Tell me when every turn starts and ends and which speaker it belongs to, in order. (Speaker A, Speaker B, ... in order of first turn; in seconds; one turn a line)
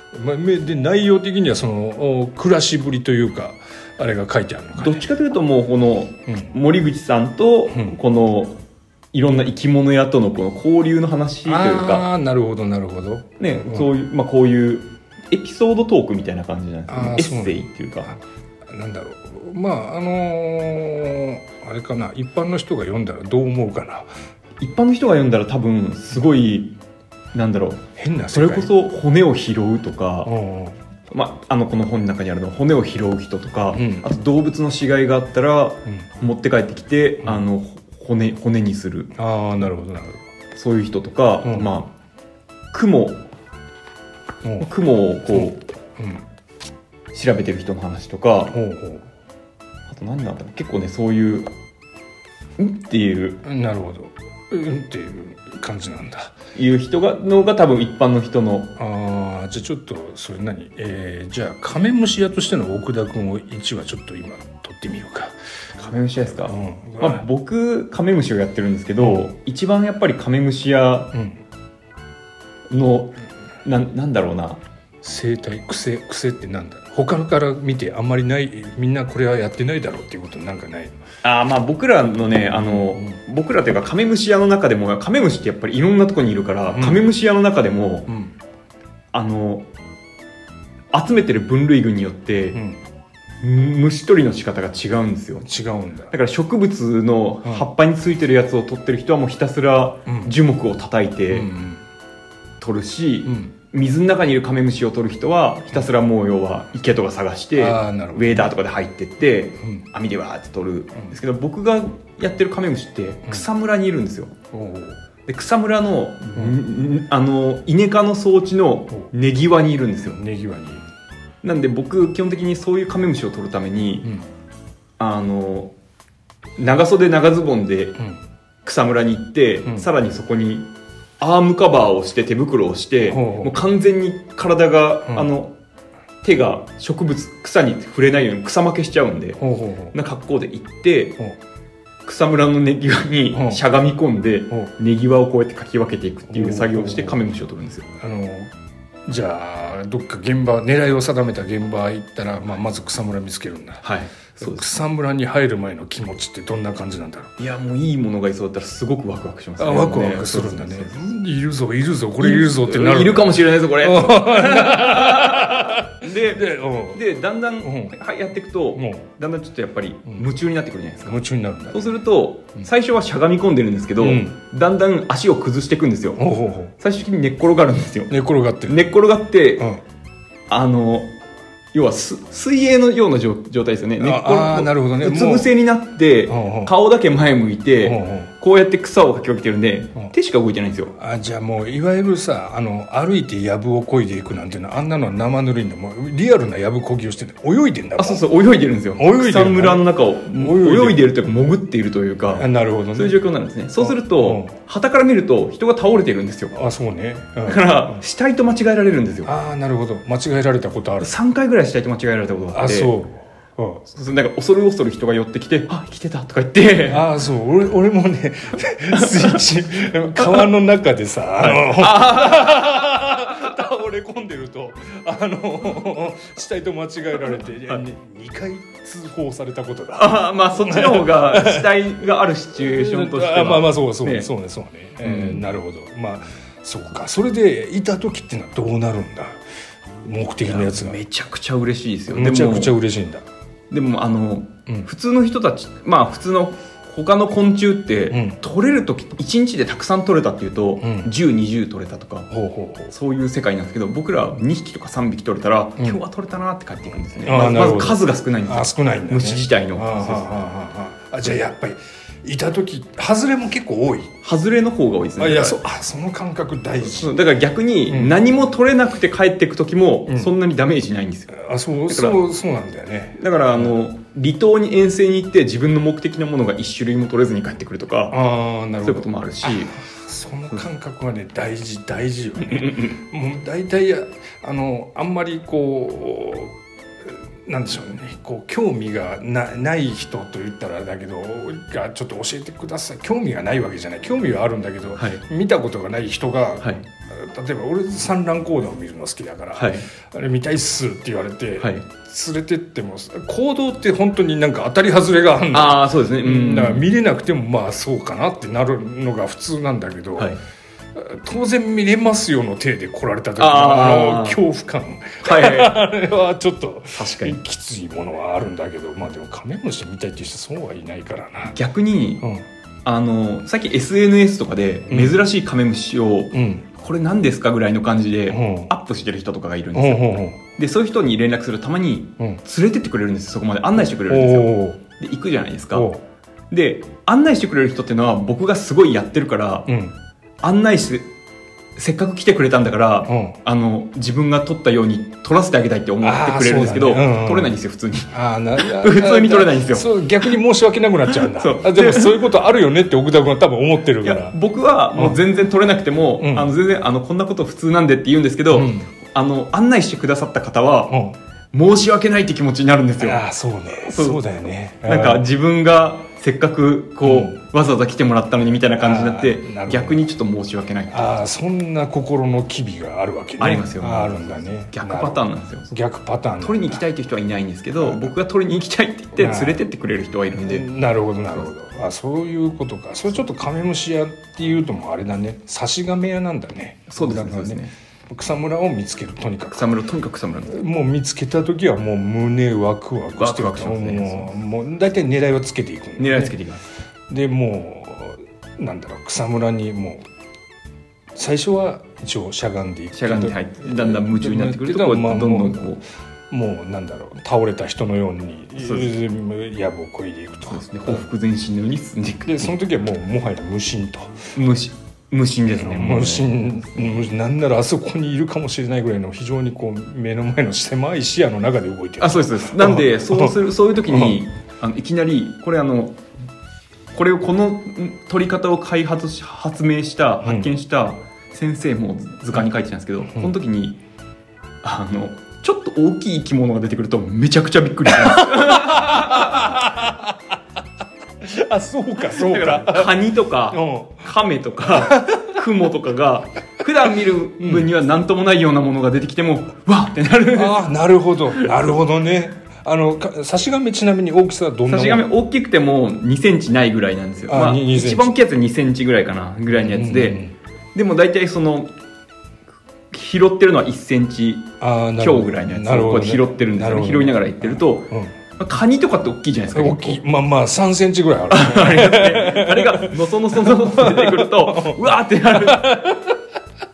Speaker A: 0.1-5.1
Speaker B: 4.8-8.6
Speaker A: 6.3-6.6
Speaker A: 7.7-8.0
Speaker B: 9.1-12.1
Speaker A: 11.4-13.9
Speaker B: 13.4-18.2
Speaker A: 16.9-18.2
Speaker A: 18.7-24.1
Speaker B: 24.6-26.8
Speaker B: 27.3-30.3
Speaker A: 28.0-28.7
Speaker A: 30.2-30.8
Speaker B: 31.1-39.1
Speaker A: 33.7-34.1
Speaker A: 39.2-40.2
Speaker B: 40.5-41.9
Speaker A: 41.4-41.7
Speaker B: 42.7-43.2
Speaker B: 44.6-45.6
Speaker A: 45.3-46.2
Speaker B: 47.1-48.6
Speaker A: 48.5-49.0
Speaker B: 49.9-51.5
Speaker B: 52.6-53.4
Speaker A: 53.4-56.3
Speaker B: 56.5-58.7
Speaker A: 58.8-65.3
Speaker B: 65.8-71.1
Speaker A: 66.3-67.2
Speaker A: 69.0-69.3
Speaker A: 71.1-71.4
Speaker B: 72.7-74.6
Speaker A: 75.0-81.0
Speaker B: 81.2-88.1
Speaker A: 82.6-83.2
Speaker A: 86.7-87.1
Speaker A: 88.1-88.3
Speaker B: 89.1-89.7
Speaker B: 90.9-92.6
Speaker A: 92.5-92.8
Speaker B: 93.4-95.5
Speaker A: 95.4-96.1
Speaker B: 96.1-101.5
Speaker A: 100.1-100.4
Speaker A: 101.3-101.8
Speaker B: 102.6-114.3
Speaker A: 103.2-103.5
Speaker A: 107.5-108.5
Speaker A: 109.6-109.9
Speaker A: 114.5-115.0
Speaker B: 115.3-120.2
Speaker A: 120.1-120.9
Speaker B: 121.4-124.1
Speaker B: 125.0-125.7
Speaker B: 126.6-128.0
Speaker B: 128.7-135.6
Speaker A: 133.1-133.5
Speaker B: 136.2-139.4
Speaker A: 139.4-139.9
Speaker B: 139.9-141.2
Speaker B: 142.1-147.9
Speaker A: 143.3-143.6
Speaker A: 146.3-147.2
Speaker A: 148.0-148.5
Speaker A: 149.1-153.8
Speaker B: 153.8-154.7
Speaker A: 154.4-157.3
Speaker B: 157.4-161.0
Speaker A: 159.6-167.0
Speaker B: 162.2-171.2
Speaker A: 167.6-167.9
Speaker A: 168.8-169.1
Speaker A: 171.0-171.9
Speaker B: 171.7-176.2
Speaker A: 174.0-174.4
Speaker A: 176.2-176.7
Speaker B: 176.8-179.7
Speaker A: 178.1-178.9
Speaker B: 180.5-181.1
Speaker B: 181.7-191.0
Speaker A: 184.0-185.5
Speaker A: 186.3-186.7
Speaker A: 187.8-188.3
Speaker A: 191.0-198.2
Speaker B: 198.0-206.6
Speaker A: 199.0-201.1
Speaker A: 202.4-203.2
Speaker A: 203.8-204.6
Speaker A: 206.5-208.0
Speaker B: 207.4-209.3
Speaker A: 209.2-211.1
Speaker B: 211.0-212.9
Speaker A: 212.5-213.8
Speaker B: 213.9-217.1
Speaker A: 216.9-239.4
Speaker B: 218.9-219.4
Speaker B: 220.2-220.5
Speaker B: 221.4-223.0
Speaker B: 227.3-227.8
Speaker B: 229.9-234.3
Speaker B: 235.0-235.5
Speaker A: 240.0-241.0
Speaker B: 240.4-242.8
Speaker A: 242.1-243.2
Speaker B: 243.7-252.3
Speaker A: 248.1-248.4
Speaker A: 250.8-251.1
Speaker A: 252.3-252.9
Speaker B: 252.9-260.5
Speaker A: 257.2-264.1
Speaker B: 264.2-265.6
Speaker A: 265.2-267.2
Speaker B: 266.8-272.2
Speaker A: 267.9-268.1
Speaker A: 270.1-270.3
Speaker A: 271.3-273.8
Speaker B: 273.2-278.2
Speaker A: 278.1-310.4
Speaker B: 278.8-279.8
Speaker B: 282.5-282.9
Speaker B: 299.6-299.9
Speaker B: 301.6-301.9
Speaker B: 305.5-306.9
Speaker A: 310.9-321.6
Speaker B: 313.4-314.4
Speaker B: 315.2-315.8
Speaker B: 316.9-317.4
Speaker B: 321.5-322.3
Speaker B: 322.9-335.9
Speaker A: 324.9-325.2
Speaker A: 326.3-326.6
Speaker A: 328.3-328.8
Speaker A: 329.7-330.4
Speaker A: 334.1-334.8
Speaker A: 335.7-336.0
Speaker B: 336.5-339.8
Speaker A: 339.7-339.9
Speaker B: 340.4-341.1
Speaker B: 341.8-350.3
Speaker A: 343.1-343.4
Speaker A: 346.0-347.6
Speaker A: 348.1-354.4
Speaker B: 351.1-352.2
Speaker B: 354.0-361.0
Speaker A: 354.9-355.2
Speaker A: 356.2-356.5
Speaker A: 358.5-358.9
Speaker A: 360.9-361.2
Speaker B: 361.5-364.2
Speaker A: 363.0-365.3
Speaker B: 364.8-371.2
Speaker A: 367.0-367.4
Speaker A: 368.8-370.1
Speaker A: 370.9-376.9
Speaker B: 373.4-375.7
Speaker B: 376.4-380.7
Speaker A: 377.8-378.2
Speaker A: 379.2-379.6
Speaker A: 380.4-389.7
Speaker B: 386.9-387.7
Speaker B: 389.5-390.6
Speaker A: 390.5-396.4
Speaker B: 393.2-394.3
Speaker B: 396.0-396.6
Speaker A: 397.1-400.1
Speaker A: 401.1-405.8
Speaker B: 402.9-405.8
Speaker A: 406.3-411.1
Speaker B: 408.6-409.0
Speaker B: 410.5-412.5
Speaker A: 412.2-414.3
Speaker B: 414.4-417.0
Speaker A: 415.5-424.2
Speaker B: 422.0-426.0
Speaker B: 426.9-433.8
Speaker A: 430.2-430.5
Speaker A: 433.1-433.3
Speaker B: 434.6-439.7
Speaker A: 437.9-440.1
Speaker A: 441.2-444.1
Speaker B: 442.0-450.7
Speaker A: 444.7-445.4
Speaker A: 447.4-447.7
Speaker A: 450.3-455.1
Speaker B: 451.3-451.6
Speaker B: 454.7-460.2
Speaker A: 457.3-458.1
Speaker A: 459.5-460.4
Speaker B: 460.8-461.7
Speaker B: 462.9-470.0
Speaker A: 464.6-468.2
Speaker A: 469.5-476.1
Speaker B: 471.3-475.9